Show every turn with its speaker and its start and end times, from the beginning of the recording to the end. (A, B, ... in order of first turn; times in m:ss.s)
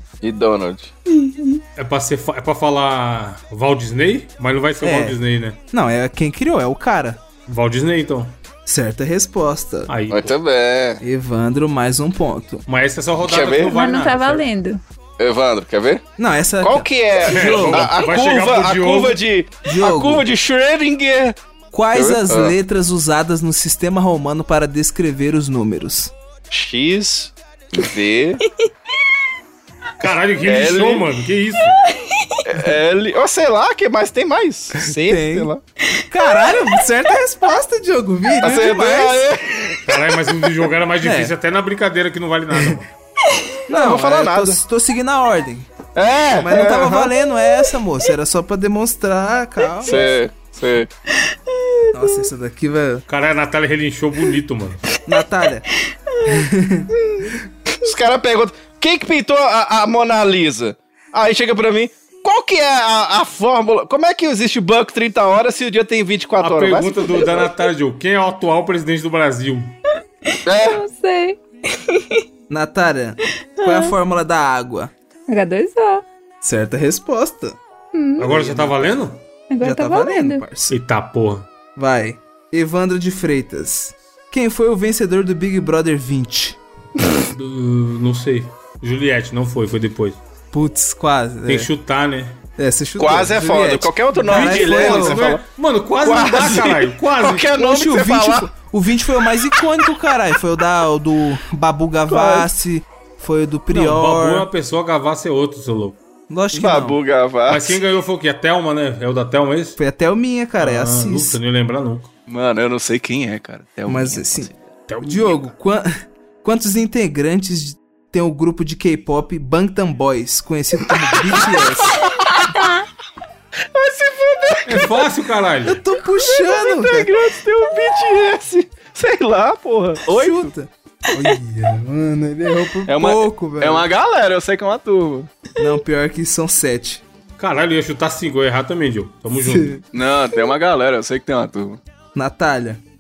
0:00.2-0:00.9 A
0:01.1-0:01.6 B
0:01.8-0:05.6 C
0:04.8-0:05.2 D
0:05.7-0:07.2 D
0:07.5-0:08.4 C
0:08.7-0:09.9 D
0:09.9-0:10.4 C
0:10.1-0:11.0 A
0:11.0-0:12.7 D
0:12.7-0:14.4 C
0:13.2-0:13.8 A
0:13.7-0:14.8 B
0:15.2-0:16.0 A
0:16.2-0:17.9 D
0:16.6-0:21.4 A
0:17.2-0:19.2 C
0:19.6-0:20.3 D
0:21.7-0:26.1 D
0:21.9-0:22.6 A
0:26.5-0:28.4 A
0:30.0-0:31.8 C
0:30.4-0:31.1 A
0:31.9-0:32.4 B
0:32.4-0:35.6 A
0:34.8-0:35.5 D
0:36.1-0:39.2 D
0:36.4-0:36.7 B
0:38.4-0:39.8 A
0:39.8-0:42.9 C
0:41.0-0:41.3 D
0:43.7-0:45.7 D
0:43.7-0:44.6 A
0:46.0-0:47.1 A
0:46.4-0:50.1 D
0:49.8-0:50.9 A
0:49.8-0:50.1 B
0:51.5-0:52.3 B
0:51.9-0:53.1 D
0:53.1-0:54.8 C
0:55.0-0:55.7 D
0:56.1-0:56.4 B
0:56.3-0:56.9 D
0:57.0-0:57.3 B
0:57.8-1:07.5 A
1:06.4-1:09.8 C
1:10.5-1:10.8 A
1:10.5-1:12.2 B
1:12.5-1:14.9 D
1:13.6-1:13.9 B
1:15.3-1:16.0 B
1:16.4-1:17.6 D
1:17.9-1:18.4 B
1:18.2-1:19.2 C
1:18.3-1:18.9 D
1:19.5-1:20.4 B
1:19.6-1:20.8 D
1:20.7-1:21.5 C
1:21.8-1:26.6 D
1:27.3-1:30.2 C
1:30.5-1:31.7 D
1:31.5-1:32.4 C
1:32.6-1:35.2 D
1:33.0-1:35.4 A
1:34.2-1:37.5 C
1:36.0-1:38.5 A
1:37.6-1:44.5 D
1:42.1-1:42.5 A
1:43.7-1:46.0 C
1:46.3-1:47.0 D
1:46.5-1:47.8 A
1:47.5-1:49.8 C
1:49.8-1:51.4 D
1:50.6-1:52.1 C
1:52.3-1:54.6 A
1:53.9-1:54.5 D
1:54.9-1:55.5 C
1:55.0-1:55.9 D
1:56.4-2:02.0 D
2:02.4-2:02.8 B
2:03.7-2:05.1 A
2:04.7-2:05.8 C
2:05.6-2:07.1 D
2:06.3-2:10.5 A
2:10.1-2:13.9 D
2:12.9-2:15.3 A
2:15.6-2:17.0 D
2:17.4-2:19.7 C
2:19.4-2:19.8 D
2:19.9-2:21.8 A
2:22.2-2:22.8 D